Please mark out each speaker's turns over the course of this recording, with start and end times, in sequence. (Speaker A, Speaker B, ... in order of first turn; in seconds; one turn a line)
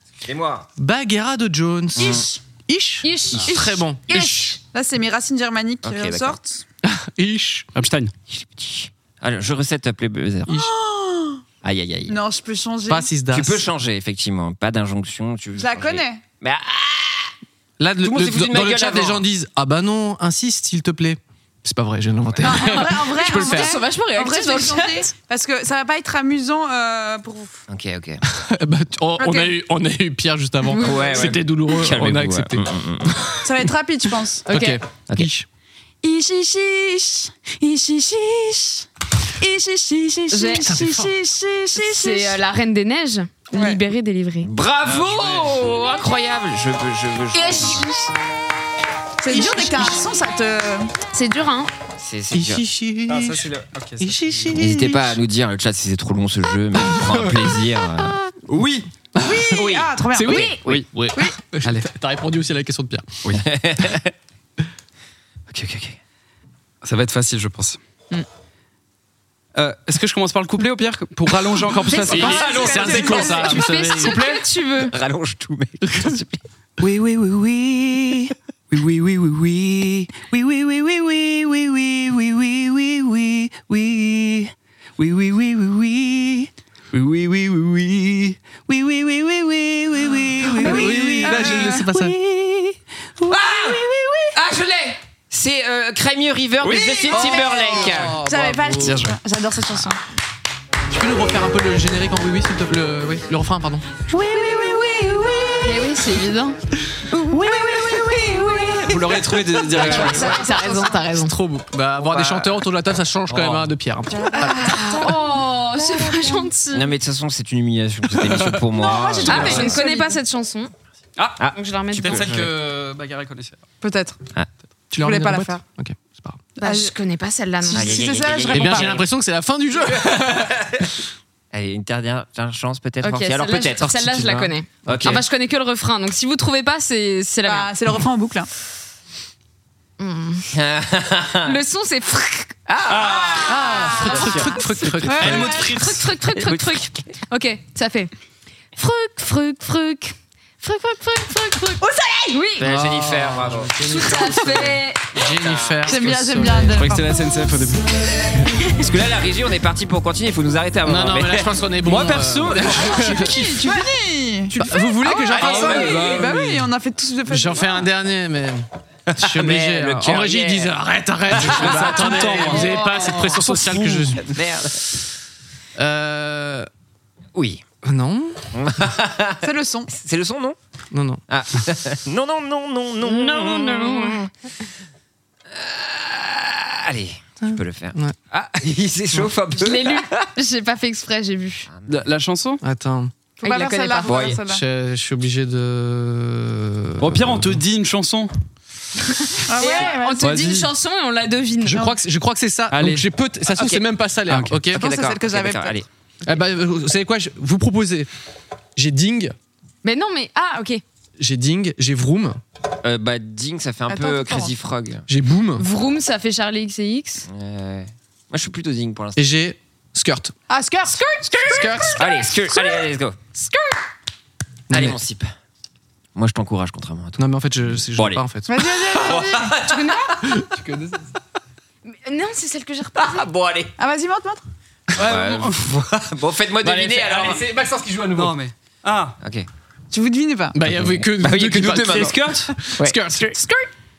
Speaker A: 0.2-0.7
Speaker B: 0.8-4.6
Speaker A: 2.0-2.3
Speaker C: 2.0-2.4
Speaker D: 3.0-3.6
Speaker C: 3.5-6.6
Speaker A: 5.8-6.4
Speaker B: 6.8-7.7
Speaker E: 7.7-8.1
Speaker A: 8.3-10.5
Speaker C: 10.5-11.4
Speaker A: 11.6-12.2
Speaker C: 12.1-13.1
Speaker B: 12.9-13.6
Speaker A: 13.3-17.3
Speaker C: 15.6-16.2
Speaker B: 17.8-23.8
Speaker A: 18.0-19.2
Speaker A: 22.3-22.7
Speaker C: 22.4-27.6
Speaker D: 23.2-25.1
Speaker A: 27.7-28.2
Speaker B: 28.2-33.7
Speaker C: 29.2-29.6
Speaker D: 30.7-31.3
Speaker A: 30.8-33.1
Speaker C: 33.4-34.5
Speaker B: 34.5-35.5
Speaker D: 34.5-34.8
Speaker C: 36.0-38.9
Speaker C: 39.4-42.4
Speaker D: 40.3-40.9
Speaker B: 40.6-41.1
Speaker D: 41.8-44.5
Speaker C: 43.5-43.8
Speaker A: 44.4-47.9
Speaker E: 44.9-45.7
Speaker D: 47.3-48.1
Speaker C: 49.2-50.9
Speaker B: 49.3-50.0
Speaker D: 51.1-51.7
Speaker A: 52.0-52.6
Speaker B: 52.3-55.2
Speaker E: 53.1-54.5
Speaker A: 54.5-58.1
Speaker B: 56.9-57.4
Speaker E: 58.5-58.9
Speaker B: 59.1-59.6
Speaker C: 59.2-60.6
Speaker A: 59.5-60.6
Speaker B: 60.1-63.2
Speaker E: 61.6-61.9
Speaker A: 63.4-64.1
Speaker A: 65.5-66.0
Speaker E: 66.8-67.8
Speaker E: 69.5-72.8
Speaker B: 71.6-74.2
Speaker C: 71.9-73.7
Speaker D: 71.9-74.9
Speaker E: 74.1-74.3
Speaker A: 74.8-76.4
Speaker B: 75.8-76.2
Speaker E: 76.8-94.2
Speaker B: 90.5-92.2
Speaker C: 90.5-91.9
Speaker A: 93.3-93.8
Speaker A: 94.3-98.2
Speaker C: 96.6-100.0
Speaker B: 97.1-99.0
Speaker E: 98.8-99.2
Speaker B: 100.9-103.9
Speaker C: 104.1-105.9
Speaker D: 105.6-106.6
Speaker C: 107.1-111.1
Speaker E: 108.8-110.4
Speaker B: 109.7-110.0
Speaker D: 109.9-111.3
Speaker B: 111.1-114.9
Speaker E: 112.1-112.5
Speaker E: 113.3-113.7
Speaker C: 114.1-116.5
Speaker D: 114.4-116.9
Speaker A: 116.7-119.8
Speaker B: 118.2-119.7
Speaker C: 118.7-120.2
Speaker D: 119.3-120.7
Speaker E: 121.2-123.6
Speaker A: 121.4-122.5
Speaker D: 121.5-122.3
Speaker C: 123.8-124.2
Speaker B: 124.9-126.4
Speaker C: 125.0-125.6
Speaker C: 126.6-126.9
Speaker D: 126.6-128.0
Speaker C: 127.6-129.0
Speaker A: 127.7-129.1
Speaker B: 128.5-130.6
Speaker A: 130.3-130.8
Speaker A: 131.5-133.9
Speaker D: 133.0-137.7
Speaker B: 133.8-135.2
Speaker A: 134.9-135.2
Speaker C: 137.4-138.5
Speaker D: 140.0-140.5
Speaker A: 140.5-141.6
Speaker D: 141.4-142.6
Speaker A: 142.7-143.6
Speaker E: 142.9-143.6
Speaker C: 143.3-145.8
Speaker B: 143.4-145.9
Speaker D: 144.8-148.1
Speaker E: 145.2-145.9
Speaker A: 146.4-146.9
Speaker D: 148.8-152.7
Speaker C: 151.8-152.4
Speaker A: 152.6-154.7
Speaker B: 152.6-156.8
Speaker D: 153.8-155.1
Speaker A: 155.4-155.9
Speaker C: 155.8-157.2
Speaker E: 156.7-158.1
Speaker A: 158.7-161.5
Speaker B: 160.8-163.6
Speaker E: 161.8-163.2
Speaker A: 162.4-163.0
Speaker C: 163.0-167.8
Speaker B: 164.5-166.0
Speaker A: 165.4-166.3
Speaker E: 165.4-166.7
Speaker B: 167.3-174.2
Speaker A: 169.1-170.7
Speaker A: 171.3-172.7
Speaker E: 171.3-174.2
Speaker C: 172.2-172.7
Speaker A: 174.2-174.9
Speaker B: 175.8-176.7
Speaker A: 177.3-177.7
Speaker B: 177.8-178.4
Speaker A: 178.5-180.6
Speaker C: 179.4-179.9
Speaker B: 180.9-181.2
Speaker A: 181.3-184.3
Speaker D: 183.1-184.2
Speaker A: 185.5-190.3
Speaker B: 187.4-188.2
Speaker D: 189.6-191.7
Speaker A: 191.7-192.1
Speaker E: 191.9-192.6
Speaker B: 192.6-193.1
Speaker D: 193.4-194.4
Speaker C: 193.4-194.6
Speaker A: 194.1-194.4
Speaker B: 194.5-197.6
Speaker E: 197.0-198.3
Speaker C: 199.5-200.4
Speaker D: 199.5-201.9
Speaker E: 200.2-200.7
Speaker B: 201.7-204.9
Speaker E: 202.7-203.1
Speaker A: 203.5-203.8
Speaker E: 204.3-204.7
Speaker A: 204.7-205.9
Speaker C: 204.8-205.8
Speaker B: 206.3-208.1
Speaker B: 208.8-209.3
Speaker D: 209.8-210.8
Speaker B: 211.2-212.4
Speaker A: 212.8-215.1
Speaker C: 213.9-214.6
Speaker B: 215.1-215.7
Speaker D: 215.6-217.3
Speaker A: 217.3-219.2
Speaker B: 219.2-220.3
Speaker C: 220.5-222.9
Speaker B: 221.4-222.1
Speaker A: 222.0-223.2
Speaker B: 224.7-225.0
Speaker A: 224.7-225.3
Speaker A: 226.2-228.2
Speaker B: 227.2-228.5
Speaker C: 228.4-229.7
Speaker A: 228.8-230.2
Speaker D: 229.6-230.0
Speaker B: 230.2-231.0
Speaker D: 231.9-233.2
Speaker A: 232.9-233.7
Speaker C: 233.8-234.4
Speaker E: 234.9-235.7
Speaker A: 235.0-237.4
Speaker B: 236.6-238.4
Speaker E: 238.1-239.2
Speaker A: 239.2-239.5
Speaker C: 239.9-240.6
Speaker B: 240.5-243.5
Speaker A: 240.8-242.2
Speaker E: 241.8-242.5
Speaker A: 242.8-243.4